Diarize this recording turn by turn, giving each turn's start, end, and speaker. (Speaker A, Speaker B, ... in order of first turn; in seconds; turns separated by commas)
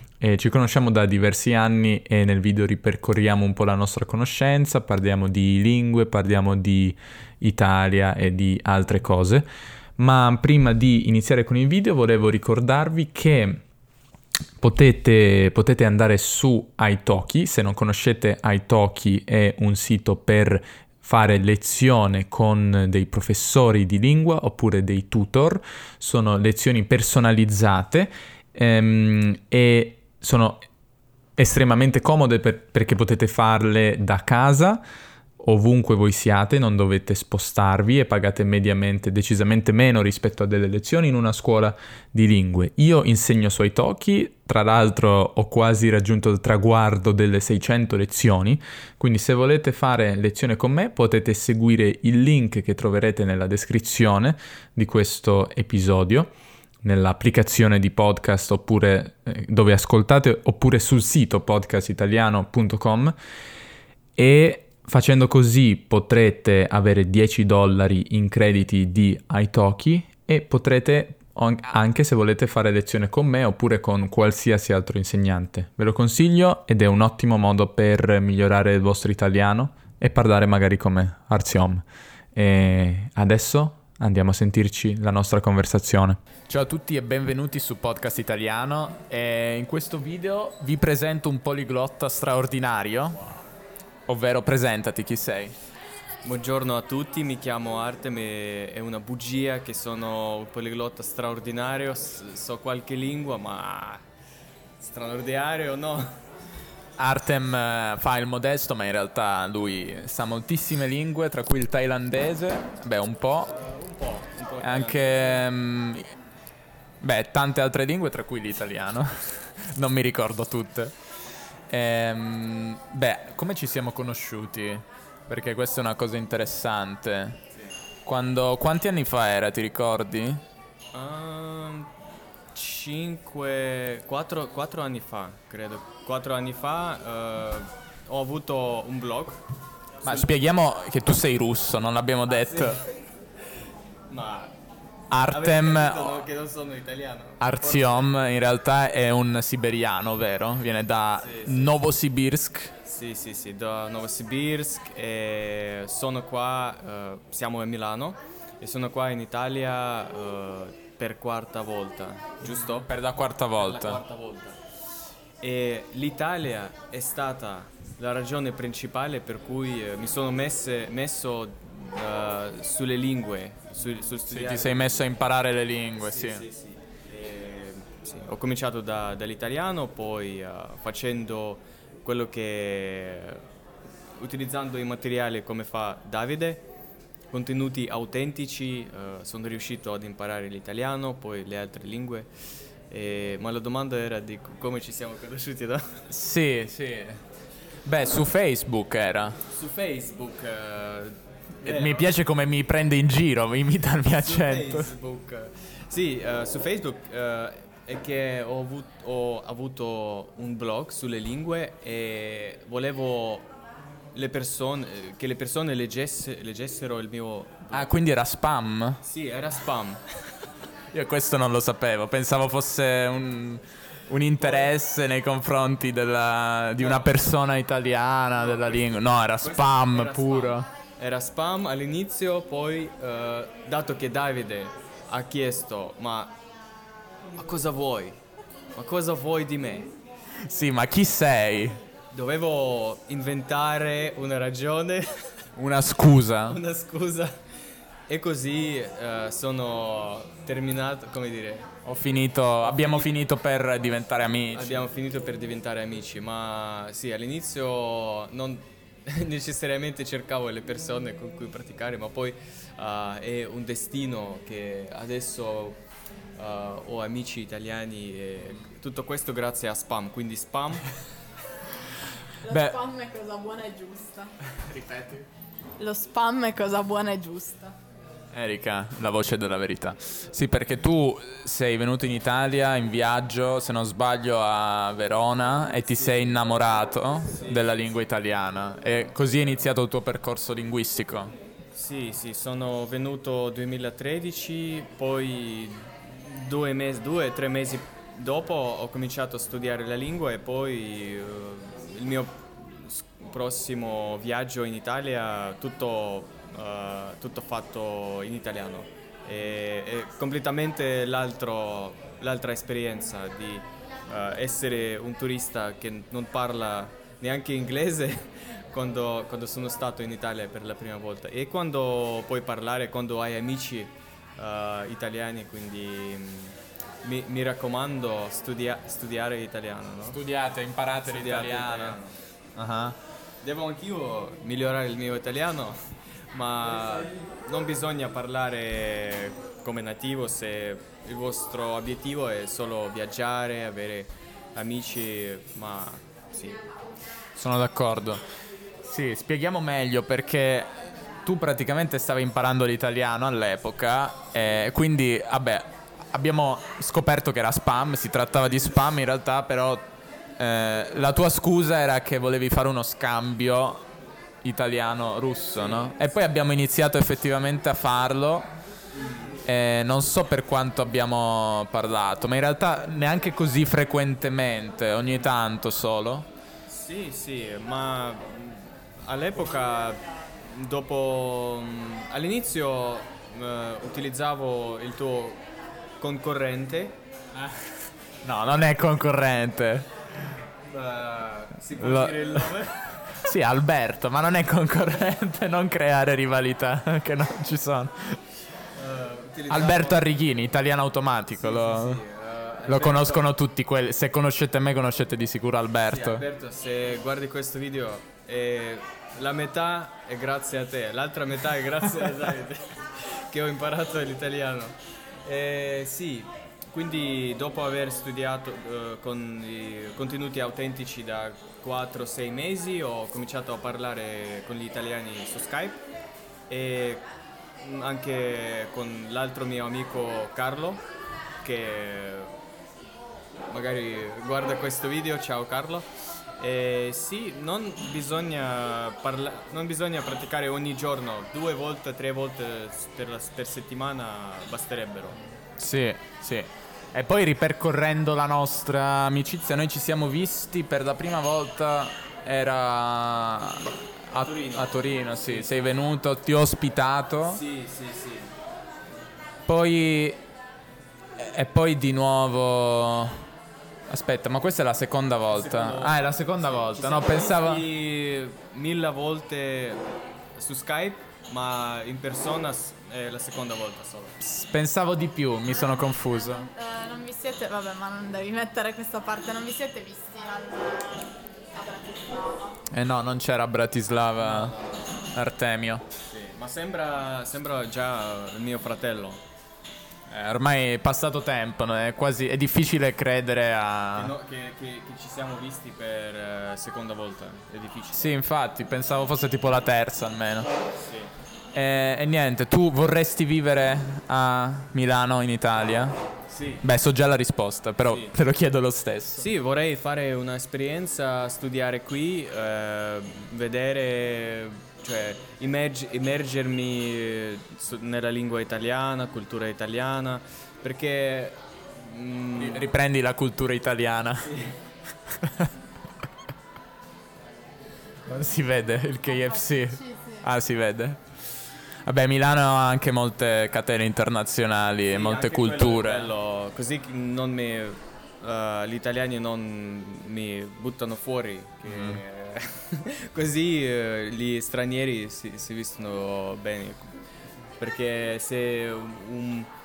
Speaker A: 0.2-9.5, Speaker A: 10.0-13.6, Speaker A: 14.6-30.6, Speaker A: 31.4-34.8, Speaker A: 35.4-56.3, Speaker A: 56.8-63.1, Speaker A: 64.2-81.8, Speaker A: 82.3-93.2, Speaker A: 94.1-95.5, Speaker B: 96.2-104.0, Speaker B: 104.8-106.1, Speaker A: 107.0-113.5, Speaker B: 113.5-115.4, Speaker A: 114.6-116.0, Speaker A: 117.0-120.9, Speaker A: 121.7-127.4, Speaker A: 128.1-130.4, Speaker B: 130.9-131.9, Speaker B: 132.5-139.4, Speaker B: 140.0-140.3, Speaker A: 140.0-142.8, Speaker B: 142.3-142.9, Speaker B: 144.1-144.5, Speaker A: 145.1-146.1, Speaker B: 145.3-148.1, Speaker A: 147.4-152.7, Speaker B: 151.2-151.7, Speaker B: 152.8-162.9, Speaker A: 162.8-164.0, Speaker B: 163.6-164.6, Speaker B: 165.4-175.1, Speaker A: 174.3-176.4, Speaker B: 176.0-183.4, Speaker B: 184.2-186.6, Speaker B: 187.3-192.3, Speaker B: 192.9-196.1, Speaker A: 196.1-197.2, Speaker A: 197.8-199.4, Speaker B: 199.5-202.1, Speaker A: 201.6-204.9, Speaker B: 204.1-213.5, Speaker B: 214.1-217.9, Speaker A: 217.7-219.0, Speaker B: 219.0-220.0, Speaker A: 220.9-230.7, Speaker B: 224.4-224.7, Speaker B: 226.8-227.1, Speaker B: 228.5-228.8, Speaker B: 229.4-236.3, Speaker B: 237.4-238.2, Speaker B: 238.8-239.9, Speaker A: 240.4-241.8, Speaker B: 242.1-245.1, Speaker A: 245.6-246.6, Speaker B: 246.5-247.3, Speaker B: 248.1-251.7, Speaker A: 251.8-254.8, Speaker B: 252.6-253.1, Speaker B: 254.5-265.8, Speaker B: 266.4-270.9, Speaker C: 272.4-274.3, Speaker A: 272.5-272.8, Speaker A: 274.6-275.2, Speaker C: 275.8-277.8, Speaker A: 278.3-291.3, Speaker B: 285.7-287.7, Speaker B: 291.7-330.2, Speaker A: 330.1-332.0, Speaker B: 331.0-332.2, Speaker A: 332.6-332.9, Speaker B: 333.4-335.8, Speaker B: 336.3-346.6, Speaker A: 347.4-348.2, Speaker A: 348.8-350.7, Speaker A: 351.2-359.8, Speaker A: 360.4-363.8, Speaker A: 364.4-368.5, Speaker B: 365.6-365.9, Speaker B: 368.9-369.4, Speaker A: 369.4-376.3, Speaker B: 376.7-385.4, Speaker B: 386.0-387.0, Speaker A: 388.2-389.9, Speaker B: 390.7-392.9, Speaker A: 391.8-392.5, Speaker A: 393.1-398.2, Speaker B: 398.7-400.2, Speaker A: 399.5-402.0, Speaker B: 401.3-403.3, Speaker A: 402.6-406.2, Speaker B: 405.9-425.8, Speaker B: 426.5-427.0, Speaker B: 427.6-430.8, Speaker B: 431.4-432.3, Speaker B: 433.5-435.9, Speaker B: 436.4-445.2, Speaker A: 445.6-457.4, Speaker B: 454.1-455.6, Speaker B: 457.3-458.3, Speaker A: 459.5-460.2, Speaker A: 461.1-463.2, Speaker A: 463.9-467.6, Speaker B: 465.3-469.8, Speaker B: 470.4-474.1, Speaker A: 474.2-476.5, Speaker C: 476.2-480.9, Speaker C: 481.5-482.6, Speaker A: 482.7-484.5, Speaker B: 484.2-484.9, Speaker A: 485.1-485.8, Speaker B: 486.1-489.2, Speaker A: 490.1-494.1, Speaker B: 493.9-498.2, Speaker A: 497.9-500.5, Speaker B: 500.7-501.1, Speaker A: 501.5-505.9, Speaker B: 506.3-506.6, Speaker A: 506.6-509.2, Speaker B: 507.8-508.1, Speaker B: 509.2-522.7, Speaker A: 522.4-524.3, Speaker B: 524.2-524.6, Speaker A: 525.2-525.5, Speaker A: 528.0-531.0, Speaker C: 529.0-530.2, Speaker A: 531.8-536.1, Speaker B: 534.9-546.9, Speaker A: 541.7-542.0, Speaker B: 547.6-549.5